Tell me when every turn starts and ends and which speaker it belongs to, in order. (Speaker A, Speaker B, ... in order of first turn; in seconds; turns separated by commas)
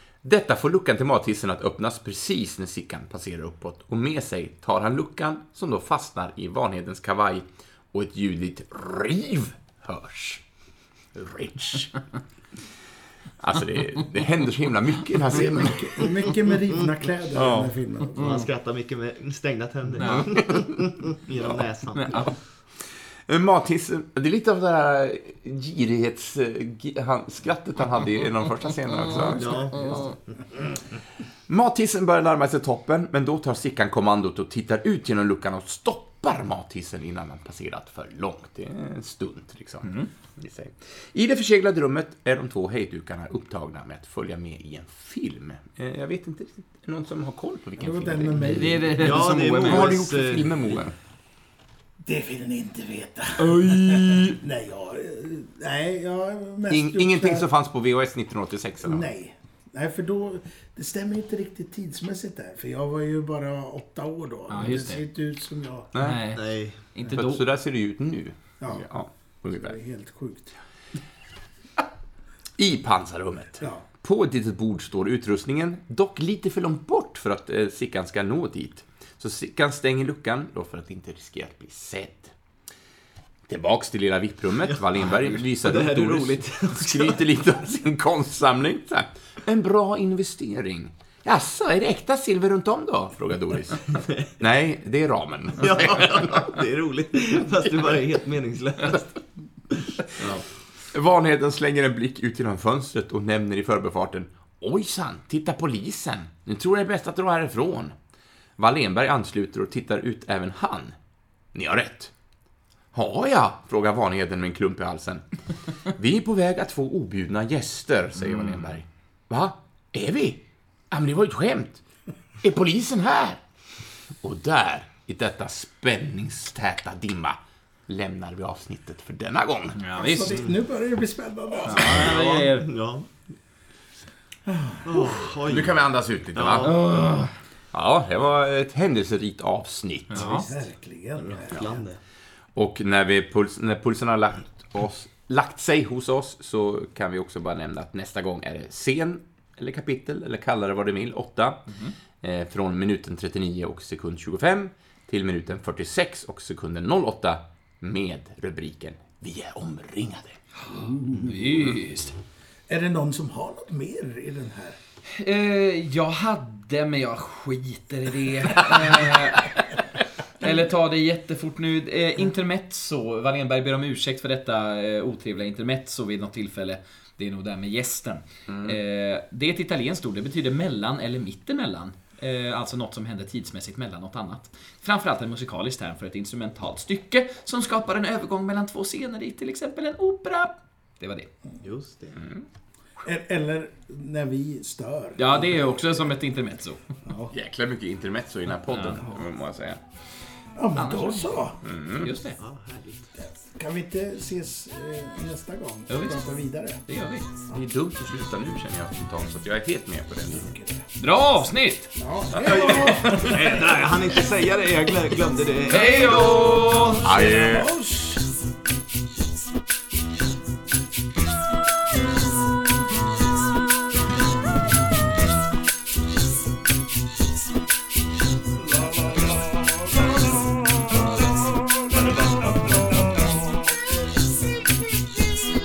Speaker A: 0.2-10.4, Speaker A: 11.1-11.9, Speaker A: 13.4-16.1, Speaker B: 15.3-18.4, Speaker A: 17.3-17.7, Speaker C: 18.2-22.4, Speaker D: 20.0-20.4, Speaker A: 20.1-20.8, Speaker D: 21.9-22.3, Speaker A: 23.3-30.1, Speaker C: 29.3-30.2, Speaker A: 31.5-48.7, Speaker D: 39.8-40.1, Speaker B: 47.8-49.1, Speaker D: 48.4-50.0, Speaker C: 48.9-50.6, Speaker A: 49.6-51.0, Speaker B: 52.0-57.4, Speaker A: 53.5-54.0, Speaker D: 53.7-54.4, Speaker A: 56.7-59.1, Speaker B: 58.9-65.9, Speaker D: 64.5-65.0, Speaker A: 65.9-66.3, Speaker D: 66.0-67.4, Speaker C: 66.3-66.8, Speaker A: 67.1-69.8, Speaker B: 68.6-68.9, Speaker B: 69.5-70.5, Speaker A: 72.6-82.3, Speaker A: 83.5-96.6, Speaker C: 84.7-87.2, Speaker C: 94.0-94.3, Speaker C: 95.6-100.4, Speaker A: 100.2-108.0, Speaker A: 108.6-111.0, Speaker A: 111.5-112.1, Speaker A: 112.9-115.3, Speaker A: 115.9-121.8, Speaker A: 122.4-123.4, Speaker A: 124.2-129.8, Speaker D: 129.8-130.4, Speaker B: 129.9-132.2, Speaker D: 131.7-132.7, Speaker C: 131.7-133.1, Speaker B: 134.5-135.3, Speaker C: 134.8-137.0, Speaker A: 135.5-136.8, Speaker D: 136.6-137.3, Speaker A: 137.7-140.4, Speaker D: 140.1-140.5, Speaker B: 140.5-142.0, Speaker C: 141.2-141.9, Speaker A: 142.6-160.4, Speaker D: 151.7-151.9, Speaker D: 160.7-162.2, Speaker B: 160.7-161.3, Speaker B: 162.7-164.8, Speaker D: 165.1-169.7, Speaker D: 170.4-191.3, Speaker A: 178.5-178.8, Speaker C: 191.6-192.2, Speaker A: 192.2-192.5, Speaker B: 193.0-196.0, Speaker D: 195.2-196.9, Speaker B: 197.1-197.3, Speaker A: 197.3-199.8, Speaker D: 198.7-199.0, Speaker B: 200.6-201.6, Speaker D: 200.8-202.4, Speaker A: 201.6-202.1, Speaker C: 202.4-203.1, Speaker B: 203.2-206.8, Speaker D: 205.9-206.3, Speaker D: 206.9-207.3, Speaker A: 207.5-210.5, Speaker B: 210.3-210.9, Speaker D: 211.0-211.9, Speaker B: 212.0-213.7, Speaker C: 212.3-216.9, Speaker D: 212.8-213.6, Speaker D: 215.7-217.0, Speaker A: 217.0-217.7, Speaker B: 217.0-218.3, Speaker B: 228.7-230.4, Speaker B: 231.8-233.6